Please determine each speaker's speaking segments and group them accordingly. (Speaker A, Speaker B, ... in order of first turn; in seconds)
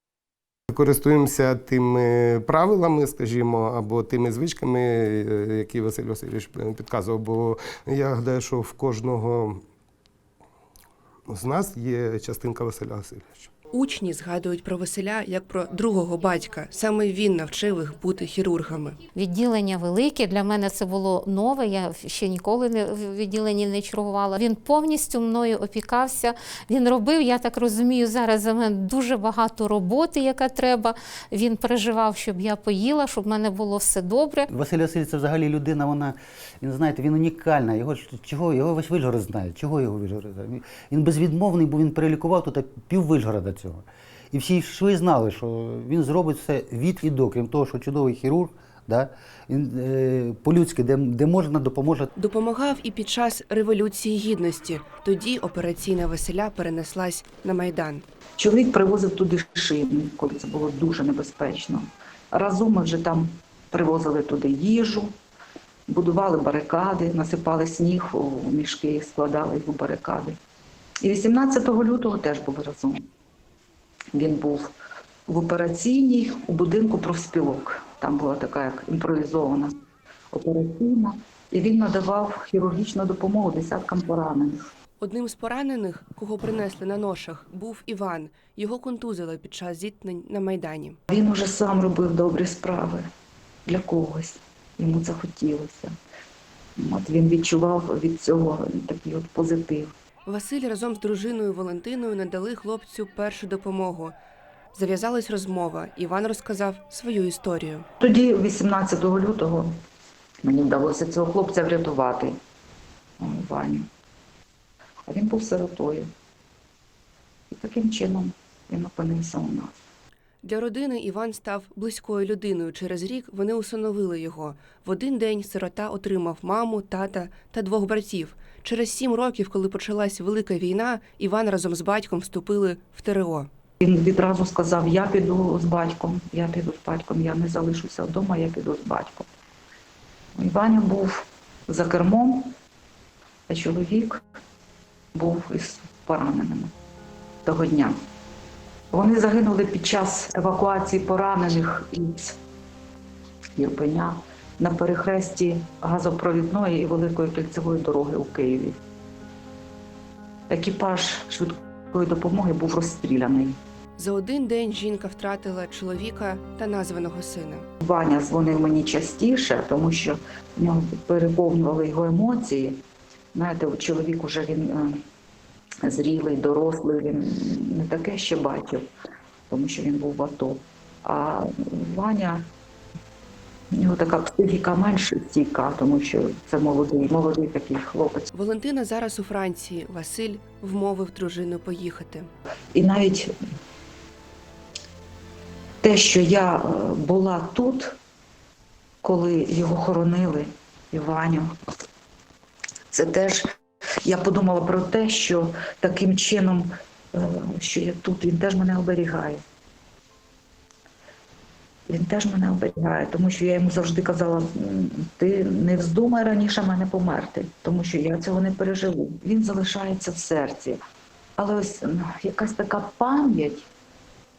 Speaker A: 0.7-9.6, 11.3-13.5
Speaker B: 13.7-19.0, 52.1-58.0, 85.0-91.0, 100.3-104.2, 104.7-107.8, 120.4-133.5, 164.0-167.7, 188.3-192.3
Speaker C: 19.1-34.5
Speaker D: 34.5-52.1
Speaker E: 58.4-65.1, 65.9-70.4, 71.0-73.0, 74.1-74.7, 75.3-79.7, 80.3-84.6, 91.1-93.1, 93.7-95.9, 96.8-99.9, 108.0-109.7, 110.4-112.4, 113.2-113.9, 115.1-116.1, 117.5-119.7, 133.8-139.3, 140.4-142.5, 143.5-144.2, 145.2-146.7, 147.4-148.0, 148.9-152.4, 153.6-158.8, 160.5-163.6, 167.8-172.8, 173.3-175.0, 175.8-178.9, 179.5-182.4, 183.7-188.3, 192.7-193.3, 195.8-198.0, 199.0-201.5, 202.9-203.4, 204.0-209.4, 211.9-220.8, 221.4-223.7